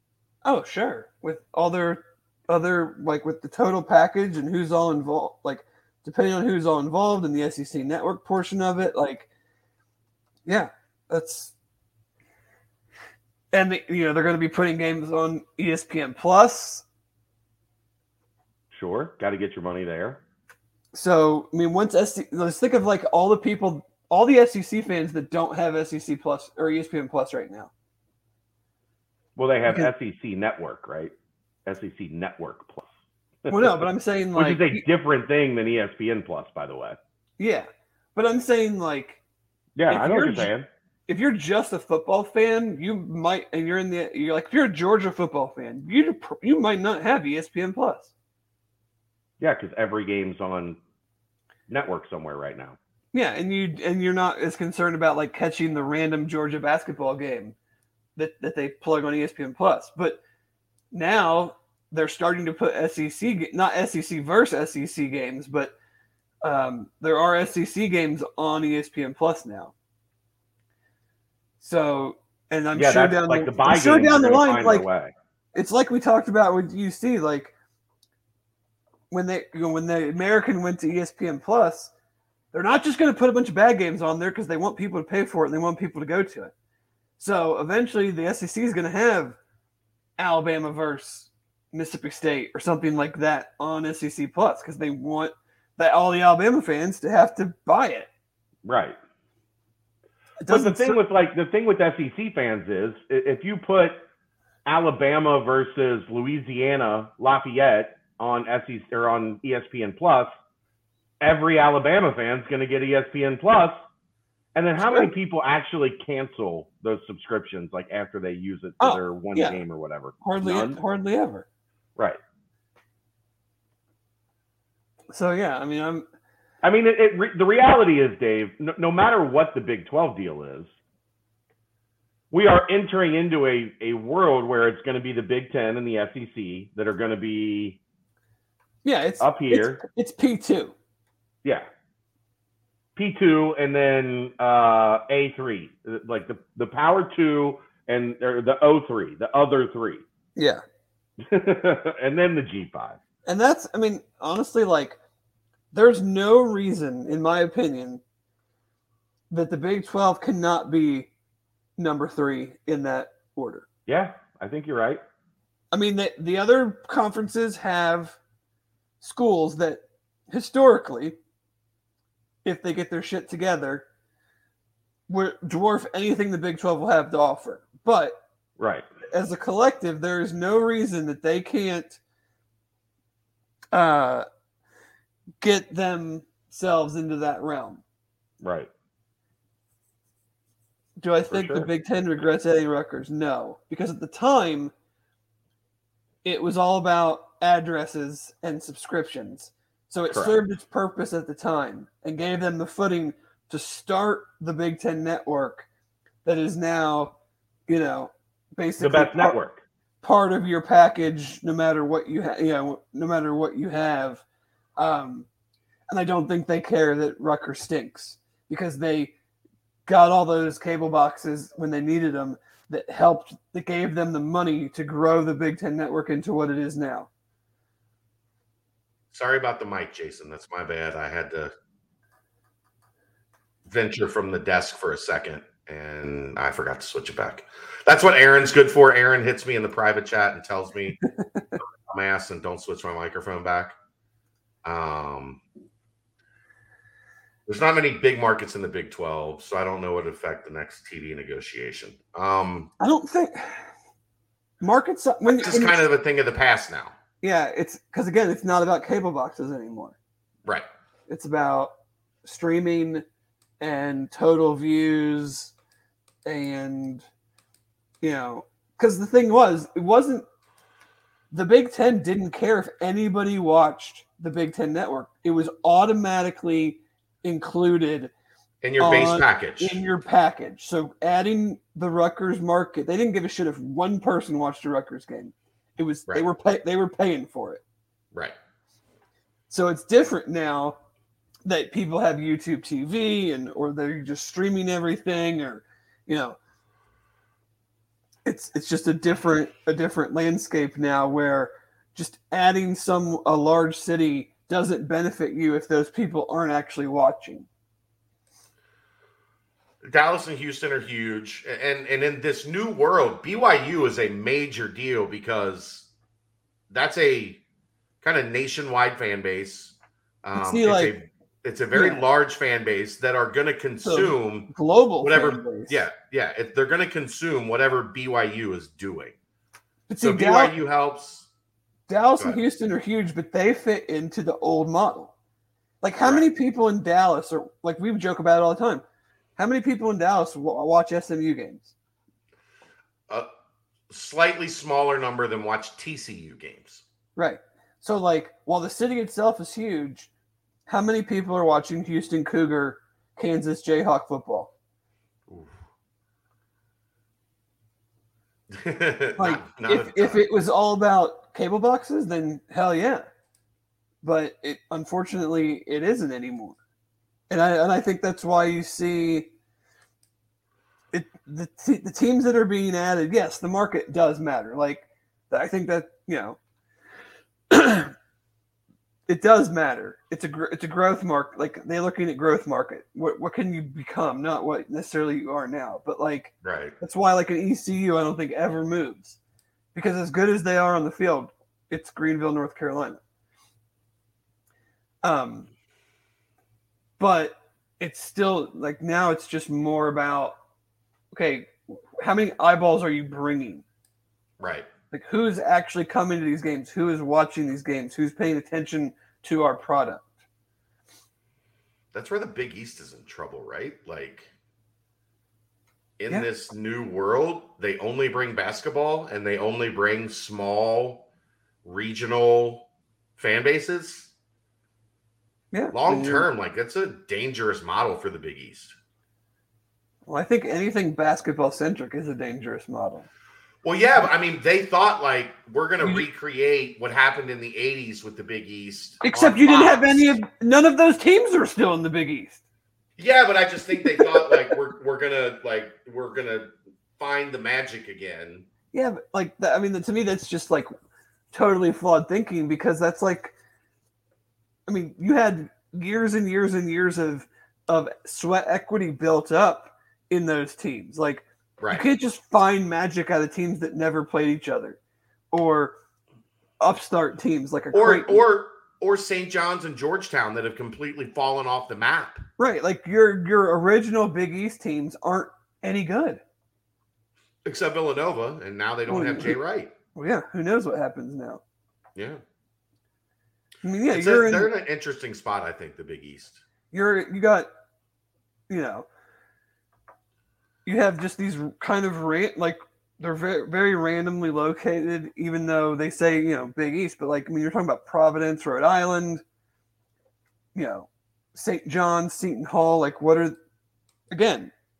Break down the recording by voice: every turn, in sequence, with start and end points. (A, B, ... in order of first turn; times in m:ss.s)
0:00.4-0:09.3 A
0:10.4-0:11.5 A
0:13.5-0:16.8 A
0:18.7-0:20.2 B
0:20.9-0:27.7 A
0:29.4-0:31.1 B
0:31.6-0:32.8 B
0:33.4-0:33.8 B
0:33.5-0:34.8 A
0:34.3-0:37.0 B
0:37.4-0:39.2 A
0:39.8-0:40.7 B
0:39.9-0:40.5 A
0:41.1-0:48.1 A
0:49.4-0:50.8 B
0:51.7-0:52.8 B
0:53.1-0:57.5 A
0:58.2-1:00.2 A
1:00.9-1:05.7 A
1:06.4-1:09.7 A
1:11.6-1:14.9 A
1:12.7-1:15.1 B
1:15.5-1:17.5 A
1:19.1-1:21.9 A
1:22.5-1:26.5 A
1:27.2-1:29.4 A
1:30.2-1:38.1 A
1:38.6-1:39.0 B
1:40.4-1:41.0 A
1:40.5-1:44.0 B
1:44.6-1:50.3 B
1:51.2-1:53.8 B
1:54.5-2:00.8 B
1:54.8-1:55.1 A
1:58.8-1:59.6 A
2:00.2-2:01.4 A
2:05.1-2:06.0 A
2:06.6-2:10.7 B
2:12.3-2:17.8 B
2:18.8-2:20.7 A
2:19.2-2:19.8 B
2:23.0-2:30.0 B
2:30.4-2:30.6 A
2:31.3-2:33.0 B
2:33.2-2:35.0 A
2:35.7-2:38.0 A
2:39.3-2:41.1 A
2:41.8-2:43.6 A
2:43.9-2:45.0 B
2:45.7-2:48.2 A
2:49.0-2:51.2 A
2:52.4-2:53.8 A
2:55.1-2:58.2 A
2:58.6-2:58.9 B
2:59.1-3:02.0 A
3:03.7-3:04.2 A
3:05.4-3:07.8 A
3:08.4-3:08.7 B
3:11.0-3:14.7 A
3:11.3-3:11.7 B
3:16.2-3:25.6 A
3:20.1-3:20.4 B
3:26.2-3:27.1 A
3:27.7-3:29.3 A
3:28.8-3:29.6 B
3:30.0-3:34.2 A
3:34.8-3:35.3 A
3:35.9-3:39.1 A
3:39.8-3:47.1 A
3:49.1-3:51.5 C
3:53.7-4:01.0 C
4:01.0-4:01.6 A
4:01.9-4:03.7 C
4:04.6-4:05.4 C
4:07.5-4:12.7 C
4:12.8-4:13.7 A
4:14.6-4:15.8 A
4:15.2-4:16.9 C
4:17.2-4:20.0 A
4:21.1-4:21.7 A
4:22.2-4:23.0 A
4:23.6-4:25.5 A
4:26.2-4:27.0 A
4:28.0-4:30.2 A
4:31.3-4:38.1 A
4:38.6-4:39.8 C
4:38.8-4:47.6 A
4:49.5-4:50.8 A
4:51.4-4:56.4 A
4:58.2-5:07.5 A
5:09.8-5:15.9 C
5:16.7-5:17.4 C
5:18.0-5:29.1 C
5:20.3-5:20.9 A
5:21.7-5:22.0 A
5:23.8-5:25.8 A
5:29.9-5:30.5 A
5:30.0-5:31.3 C
5:31.9-5:35.1 A
5:35.8-5:38.8 A
5:39.4-5:41.7 A
5:43.9-5:46.8 C
5:47.2-5:50.1 A
5:50.7-5:54.5 A
5:55.3-5:55.5 C
5:58.5-6:00.2 C
5:59.2-6:03.1 A
6:04.0-6:06.6 A
6:07.3-6:09.3 A
6:10.9-6:16.4 A
6:17.5-6:17.9 A
6:19.1-6:29.2 A
6:26.4-6:26.7 C
6:29.7-6:33.0 A
6:35.0-6:35.5 A
6:37.0-6:40.4 A
6:41.1-6:43.6 A
6:44.4-6:44.7 C
6:44.9-6:50.1 A
6:51.9-6:54.3 C
6:56.0-7:01.0 C
7:01.6-7:04.1 C
7:05.5-7:06.3 A
7:05.7-7:08.7 C
7:10.1-7:13.1 A
7:13.6-7:20.2 C
7:19.0-7:22.4 A
7:23.0-7:28.4 C
7:23.8-7:24.5 A
7:28.7-7:30.7 A
7:31.3-7:33.3 A
7:34.7-7:44.8 A
7:41.6-7:41.8 C
7:45.3-7:45.8 A
7:46.6-7:48.2 A
7:47.7-7:52.2 C
7:52.4-7:56.2 A
7:57.4-7:59.7 C
7:58.9-7:59.4 A
7:59.9-8:01.4 A
8:02.0-8:02.2 C
8:03.6-8:04.5 A
8:03.9-8:06.4 C
8:06.7-8:07.5 A
8:08.5-8:08.9 A
8:10.6-8:19.2 A
8:20.5-8:23.4 A
8:24.1-8:24.5 A